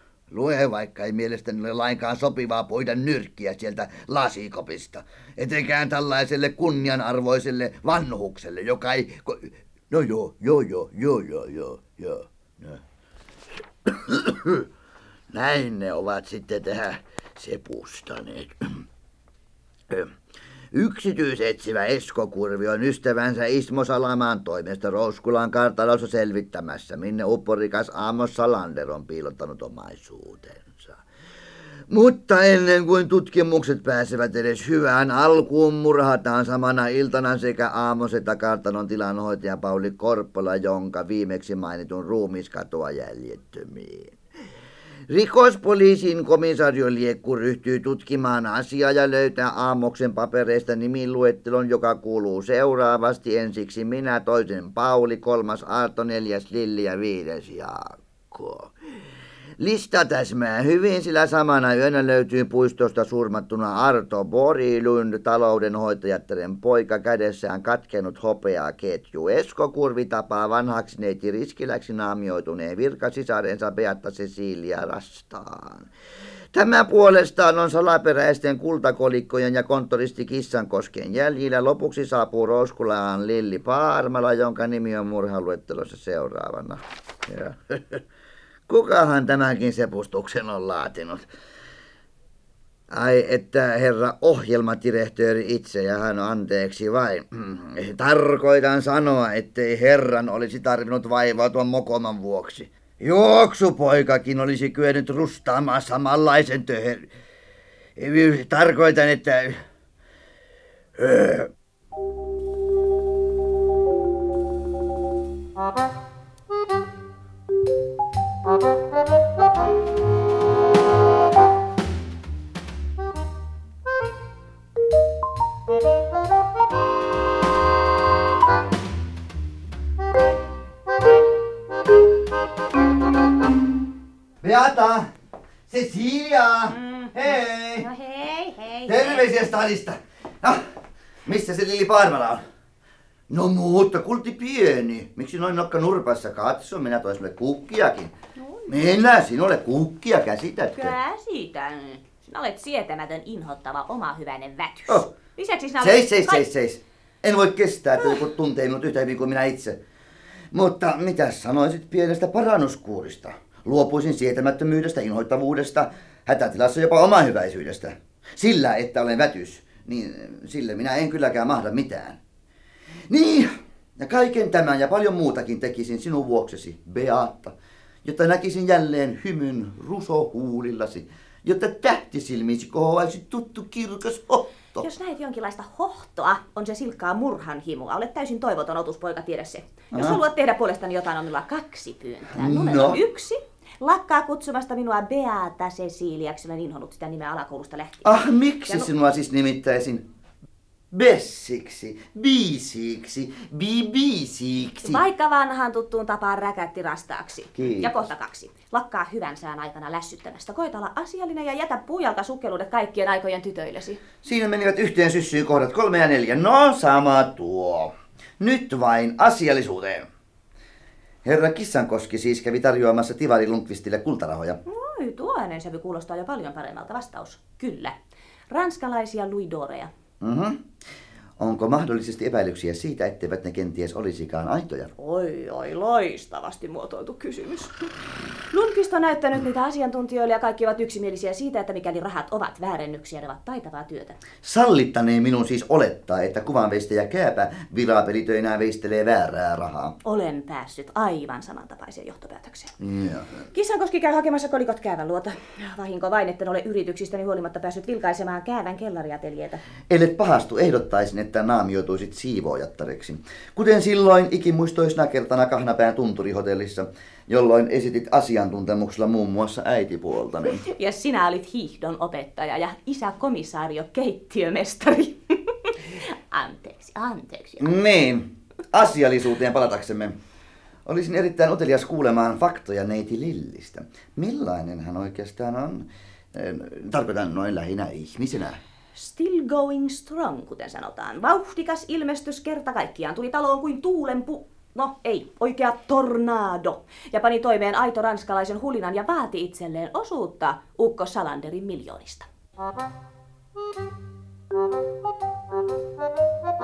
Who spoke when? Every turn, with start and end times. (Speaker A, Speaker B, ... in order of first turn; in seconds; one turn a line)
Speaker A: 0.3-12.8
Speaker A: 13.8-14.7
Speaker A: 15.3-18.9
Speaker A: 19.9-20.1
Speaker A: 20.7-31.0
Speaker A: 31.9-44.1
Speaker A: 45.1-58.8
Speaker A: 59.6-75.9
Speaker A: 76.5-88.0
Speaker A: 88.7-91.3
Speaker A: 92.9-107.1
Speaker A: 108.0-109.7
Speaker A: 111.0-111.5
Speaker A: 134.4-135.1
Speaker A: 135.7-137.9
Speaker B: 138.2-138.9
Speaker A: 138.8-140.7
Speaker A: 141.3-142.5
Speaker A: 143.3-148.2
Speaker B: 148.4-148.7
Speaker A: 148.7-151.0
Speaker B: 150.8-156.4
Speaker A: 155.8-159.8
Speaker A: 160.5-172.2
Speaker A: 173.1-184.9
Speaker B: 184.8-198.9
Speaker A: 189.9-190.2
Speaker A: 192.3-193.0
Speaker A: 198.0-200.1
Speaker A: 200.9-205.0
Speaker B: 204.8-214.0
Speaker A: 207.6-208.0
Speaker A: 214.2-220.1
Speaker A: 221.2-224.6
Speaker B: 224.7-228.0
Speaker B: 228.5-229.9
Speaker A: 230.2-230.6
Speaker A: 231.4-234.9
Speaker B: 235.0-237.9
Speaker B: 238.5-244.2
Speaker A: 244.4-250.0
Speaker B: 250.0-252.8
Speaker A: 252.8-253.4
Speaker B: 253.5-259.6
Speaker A: 259.9-270.6
Speaker B: 270.6-277.7
Speaker A: 277.6-280.2
Speaker A: 280.9-288.6
Speaker B: 288.9-302.3